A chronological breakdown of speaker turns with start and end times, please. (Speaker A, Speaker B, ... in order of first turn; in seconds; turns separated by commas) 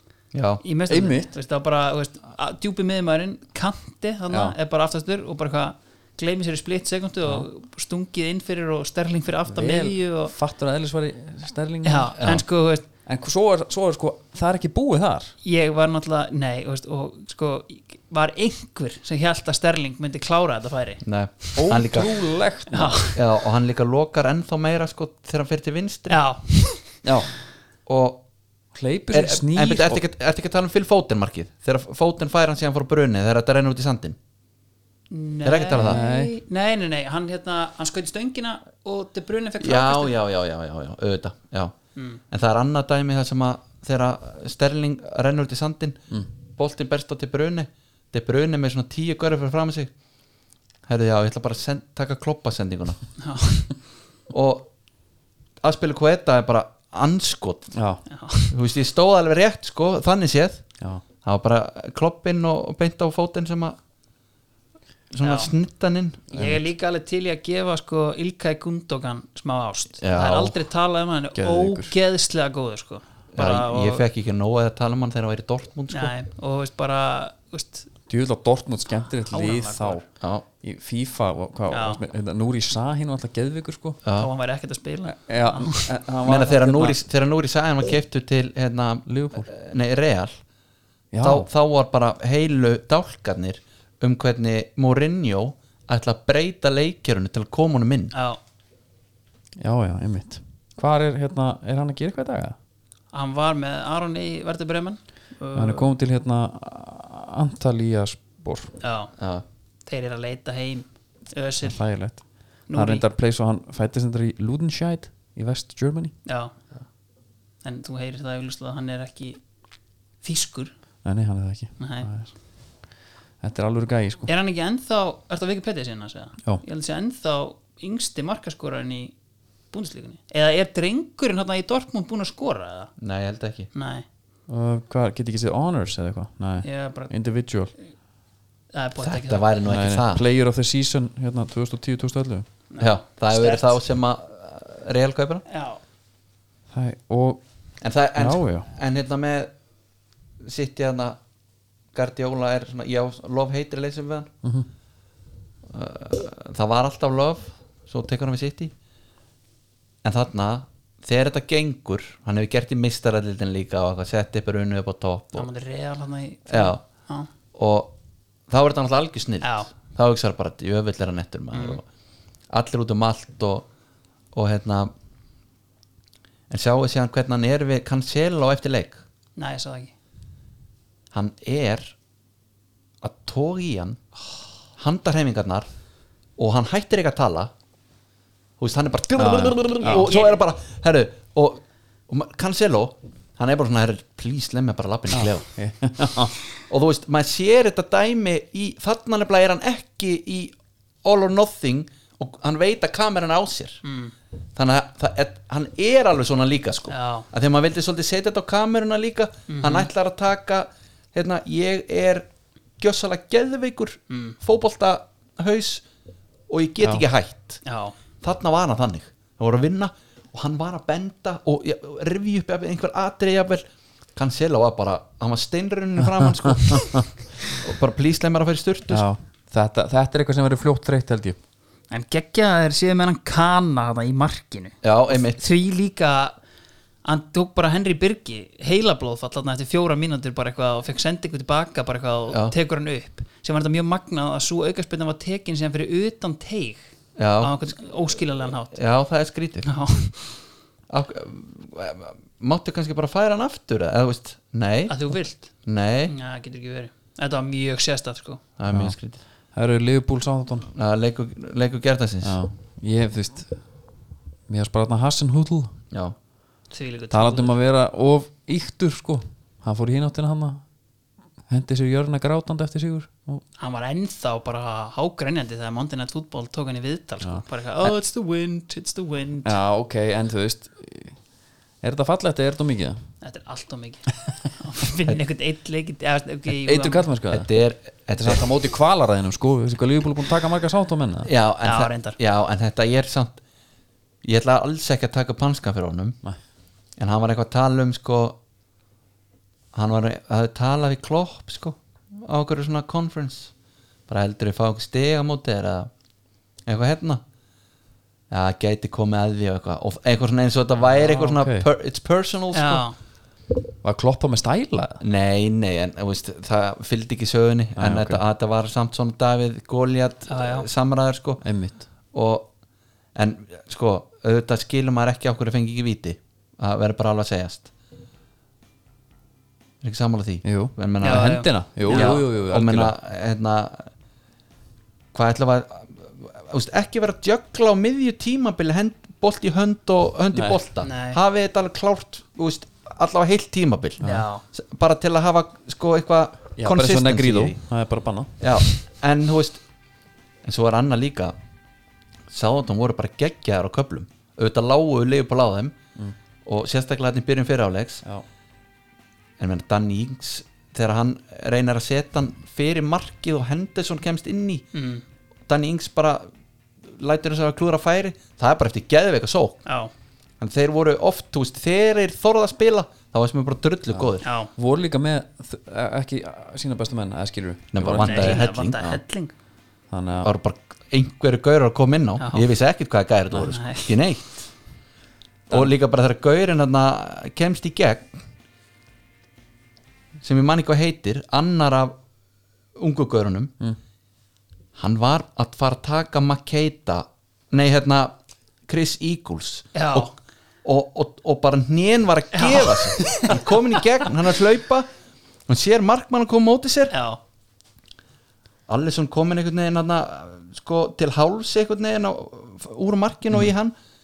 Speaker A: 0.3-0.6, Speaker B: 0.6-10.3, Speaker C: 0.9-1.3, Speaker C: 4.3-4.5, Speaker C: 9.5-12.1, Speaker B: 11.8-12.9, Speaker A: 12.2-12.4, Speaker C: 13.1-15.3, Speaker B: 15.4-21.0, Speaker A: 21.0-22.1, Speaker C: 21.6-23.0, Speaker B: 22.7-23.3, Speaker A: 23.1-26.2, Speaker B: 26.1-26.9, Speaker C: 27.0-27.3, Speaker A: 27.9-28.2, Speaker C: 28.7-30.0, Speaker A: 29.1-34.2, Speaker B: 35.1-40.1, Speaker A: 35.4-36.0, Speaker C: 35.8-36.3, Speaker A: 39.6-41.8, Speaker A: 42.3-46.0, Speaker A: 46.6-49.9, Speaker A: 50.9-53.0, Speaker B: 53.2-53.7, Speaker A: 54.3-54.7, Speaker A: 55.6-57.7, Speaker C: 57.7-58.0, Speaker B: 58.1-58.5, Speaker A: 58.5-60.6, Speaker A: 61.2-63.8, Speaker A: 65.1-66.3, Speaker B: 65.2-65.5, Speaker C: 66.3-66.7, Speaker B: 66.3-74.0, Speaker A: 70.0-70.6, Speaker C: 71.3-71.9, Speaker A: 73.3-76.1, Speaker B: 75.9-77.9, Speaker C: 78.1-80.0, Speaker B: 79.2-80.0, Speaker A: 80.2-80.5, Speaker C: 80.6-84.0, Speaker B: 81.7-82.0, Speaker A: 84.0-84.3, Speaker B: 84.2-85.9, Speaker C: 85.0-87.0, Speaker A: 86.2-90.4, Speaker C: 89.1-89.5, Speaker C: 91.1-91.5, Speaker A: 91.2-98.1, Speaker B: 98.1-98.4, Speaker C: 99.6-102.6, Speaker B: 103.1-105.9, Speaker C: 105.5-108.7, Speaker B: 108.8-109.1, Speaker A: 109.2-109.4, Speaker B: 109.9-111.8, Speaker C: 111.6-116.2, Speaker B: 112.7-113.0, Speaker B: 116.2-116.5, Speaker B: 117.6-119.4, Speaker B: 120.2-120.7, Speaker C: 121.0-122.3, Speaker B: 121.8-122.1, Speaker C: 123.4-124.3, Speaker B: 124.3-129.1, Speaker B: 129.7-132.9, Speaker A: 133.0-133.7, Speaker B: 133.7-134.1, Speaker C: 134.5-137.7, Speaker B: 136.6-137.1, Speaker B: 138.7-139.4, Speaker A: 139.0-140.2, Speaker C: 139.7-142.5, Speaker B: 142.7-143.8, Speaker A: 142.8-145.4, Speaker B: 145.5-145.8, Speaker C: 146.7-147.4, Speaker A: 147.8-149.5, Speaker C: 148.2-148.7, Speaker A: 150.4-151.2, Speaker A: 151.9-154.3, Speaker A: 155.7-158.7, Speaker A: 160.0-165.5, Speaker B: 165.3-167.3, Speaker A: 166.5-166.8, Speaker A: 167.6-167.9, Speaker A: 168.5-171.8, Speaker B: 169.4-169.7, Speaker B: 171.5-171.8, Speaker A: 172.5-173.7, Speaker A: 174.3-174.9, Speaker A: 176.5-179.0, Speaker B: 179.4-179.9, Speaker A: 181.1-181.9, Speaker A: 183.0-184.0, Speaker A: 184.8-185.7, Speaker A: 186.4-187.5, Speaker A: 188.6-195.5, Speaker C: 189.2-190.2, Speaker B: 189.8-190.4, Speaker C: 195.1-196.4, Speaker A: 196.7-203.8, Speaker B: 203.8-204.1, Speaker A: 204.6-212.3, Speaker B: 206.9-207.3, Speaker B: 209.5-209.9, Speaker A: 212.8-215.8, Speaker B: 214.1-214.4, Speaker A: 216.5-217.6, Speaker B: 217.7-218.0, Speaker A: 218.2-229.0, Speaker C: 226.0-227.1, Speaker C: 228.9-231.4, Speaker B: 231.9-236.4, Speaker A: 234.8-235.4, Speaker B: 237.0-246.9, Speaker A: 247.2-247.6, Speaker B: 247.4-248.8, Speaker A: 248.7-249.7, Speaker B: 249.6-250.1, Speaker A: 250.9-255.0, Speaker B: 254.9-255.5, Speaker A: 255.6-256.1, Speaker B: 256.1-258.4, Speaker A: 258.6-259.2, Speaker C: 258.7-258.9, Speaker C: 259.5-260.7, Speaker A: 260.7-262.4, Speaker C: 262.2-263.6, Speaker C: 264.5-265.8, Speaker B: 266.7-267.6, Speaker C: 267.1-270.6, Speaker C: 271.5-273.4, Speaker B: 273.6-279.6, Speaker C: 279.4-281.2, Speaker C: 281.8-283.0, Speaker B: 283.2-287.1, Speaker C: 286.5-287.5, Speaker A: 287.3-288.4, Speaker C: 288.1-291.3, Speaker A: 291.2-293.4, Speaker B: 291.6-292.2, Speaker A: 294.2-296.2, Speaker A: 297.0-298.4, Speaker A: 299.7-303.5, Speaker A: 304.1-305.9, Speaker A: 306.7-307.2, Speaker A: 308.3-312.9, Speaker C: 311.0-311.7, Speaker B: 312.5-312.9, Speaker C: 313.8-315.0, Speaker A: 315.0-321.4, Speaker C: 317.8-318.2, Speaker B: 320.3-320.7, Speaker C: 321.4-321.9, Speaker A: 322.1-322.5, Speaker A: 323.1-327.7, Speaker A: 329.8-331.4, Speaker C: 330.4-332.9, Speaker B: 331.0-332.2, Speaker A: 331.9-333.9, Speaker A: 335.1-347.6, Speaker C: 340.3-340.6, Speaker B: 340.8-341.2, Speaker C: 344.0-344.3, Speaker B: 344.0-344.4, Speaker C: 346.6-348.4, Speaker A: 348.4-349.6, Speaker A: 350.4-351.3, Speaker A: 352.3-355.8, Speaker A: 356.4-358.0, Speaker A: 359.4-364.7, Speaker B: 364.7-365.0, Speaker A: 365.5-366.3, Speaker A: 366.9-369.6, Speaker B: 369.7-369.9, Speaker A: 370.4-374.3, Speaker C: 373.9-378.4, Speaker B: 374.2-374.5, Speaker A: 377.7-379.0, Speaker B: 378.0-379.3, Speaker C: 379.9-380.3, Speaker A: 380.2-384.3, Speaker B: 382.2-382.5, Speaker B: 383.3-384.0, Speaker A: 385.5-388.1, Speaker A: 390.2-392.0, Speaker A: 392.8-393.5, Speaker A: 394.8-398.1, Speaker A: 398.7-400.1, Speaker B: 399.8-400.1, Speaker A: 400.6-404.9, Speaker B: 402.3-404.1, Speaker A: 405.5-406.9, Speaker B: 406.9-407.2, Speaker A: 408.7-413.8